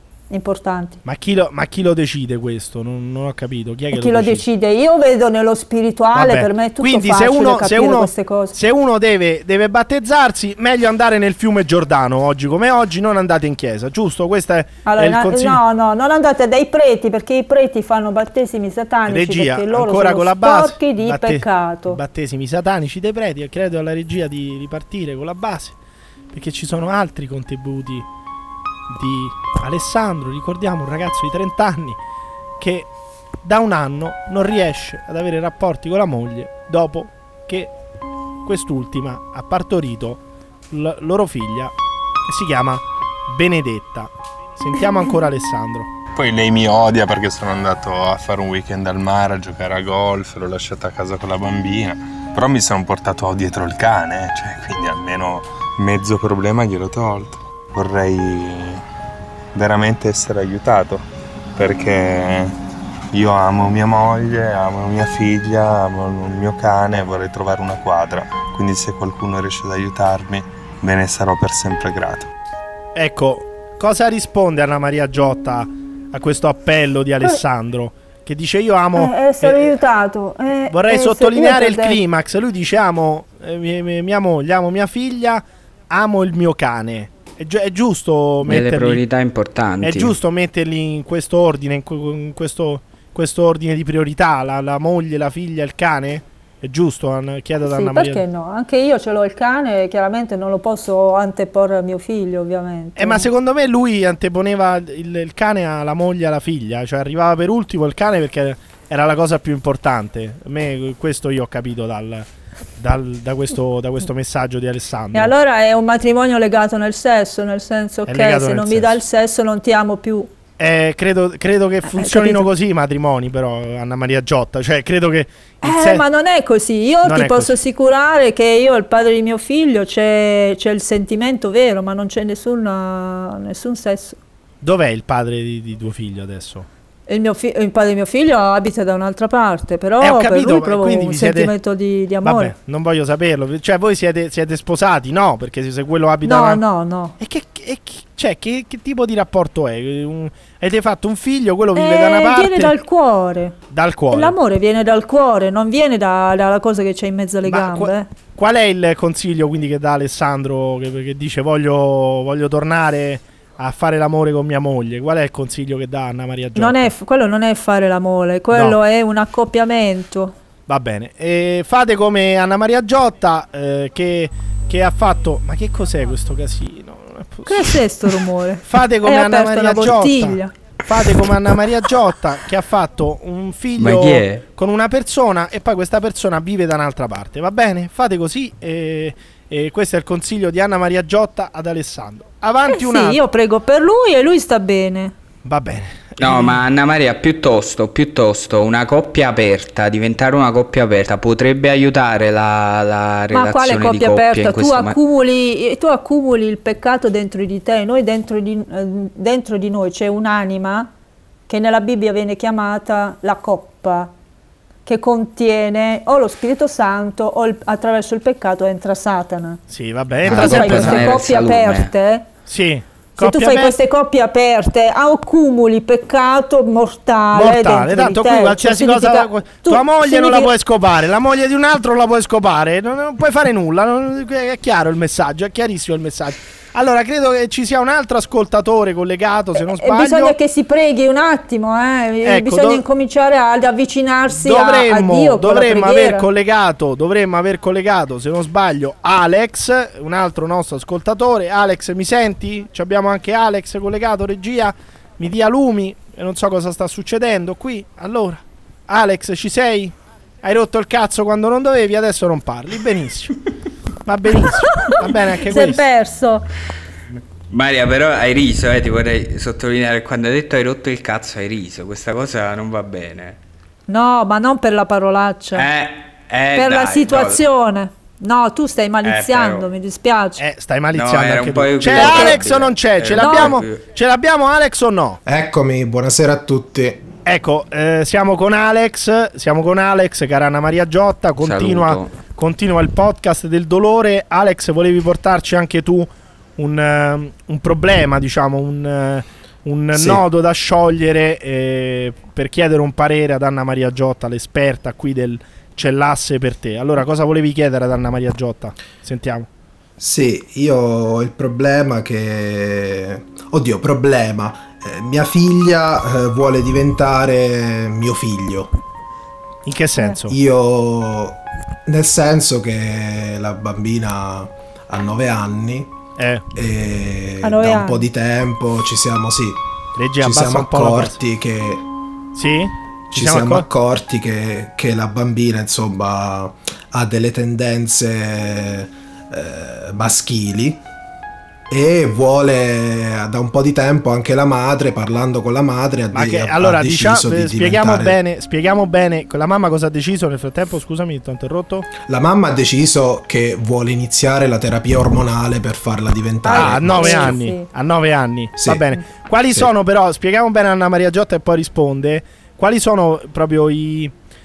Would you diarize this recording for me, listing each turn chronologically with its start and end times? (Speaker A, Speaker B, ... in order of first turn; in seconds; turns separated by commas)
Speaker A: 0.3-1.0, Speaker B: 1.0-4.4, Speaker A: 3.9-8.6, Speaker B: 6.1-15.6, Speaker A: 14.8-22.0, Speaker B: 19.1-25.8, Speaker B: 26.3-28.1, Speaker B: 28.9-32.0, Speaker B: 32.6-32.9, Speaker B: 33.4-37.7, Speaker B: 38.4-45.9, Speaker C: 46.1-58.8, Speaker C: 59.5-62.6, Speaker C: 63.1-72.3, Speaker B: 72.9-79.8, Speaker A: 79.0-82.0, Speaker B: 80.7-89.0, Speaker D: 88.4-90.1, Speaker B: 89.8-98.2, Speaker A: 97.6-103.3, Speaker B: 103.0-115.3, Speaker A: 115.1-120.3, Speaker B: 118.1-119.0, Speaker B: 120.6-126.0, Speaker A: 121.9-122.5, Speaker A: 125.6-134.2, Speaker B: 127.0-127.5, Speaker B: 134.6-136.7, Speaker A: 137.1-142.5, Speaker B: 140.0-141.5, Speaker B: 142.2-146.6, Speaker A: 146.2-147.2, Speaker B: 147.2-152.7, Speaker A: 151.7-153.6, Speaker B: 153.7-154.3, Speaker A: 154.1-158.1, Speaker B: 157.4-166.9, Speaker A: 166.5-170.3, Speaker B: 168.5-168.8, Speaker B: 170.7-177.8, Speaker A: 177.4-180.5, Speaker B: 178.6-193.2, Speaker D: 183.8-184.4, Speaker A: 192.7-195.1, Speaker B: 195.4-196.6, Speaker D: 196.2-205.0, Speaker A: 203.3-210.9, Speaker A: 211.5-214.1, Speaker A: 214.8-219.6, Speaker B: 219.7-221.2, Speaker D: 220.2-221.9, Speaker A: 220.3-222.3, Speaker B: 222.5-223.8, Speaker A: 223.2-230.5, Speaker B: 227.3-240.3, Speaker A: 239.6-246.3, Speaker B: 242.2-242.8, Speaker B: 244.3-263.4, Speaker B: 264.1-265.8, Speaker A: 265.5-266.4, Speaker D: 267.5-273.4, Speaker A: 273.9-275.6, Speaker D: 275.5-277.4, Speaker A: 276.5-280.4, Speaker D: 279.0-279.7, Speaker B: 280.4-285.2, Speaker D: 280.9-283.8, Speaker A: 281.9-282.4, Speaker A: 283.2-283.6, Speaker E: 285.2-287.0, Speaker B: 287.2-309.5, Speaker D: 291.4-292.1, Speaker E: 299.9-300.2, Speaker E: 310.0-318.7, Speaker B: 319.6-320.4, Speaker E: 320.3-326.0, Speaker B: 326.2-326.4, Speaker E: 326.5-329.6, Speaker A: 327.4-328.1, Speaker B: 330.0-331.2, Speaker E: 330.2-331.8, Speaker B: 332.3-333.7, Speaker E: 333.1-340.8, Speaker E: 341.7-348.2, Speaker B: 346.1-351.9, Speaker E: 352.0-357.4, Speaker A: 356.4-357.7, Speaker B: 356.5-364.1, Speaker E: 358.6-358.9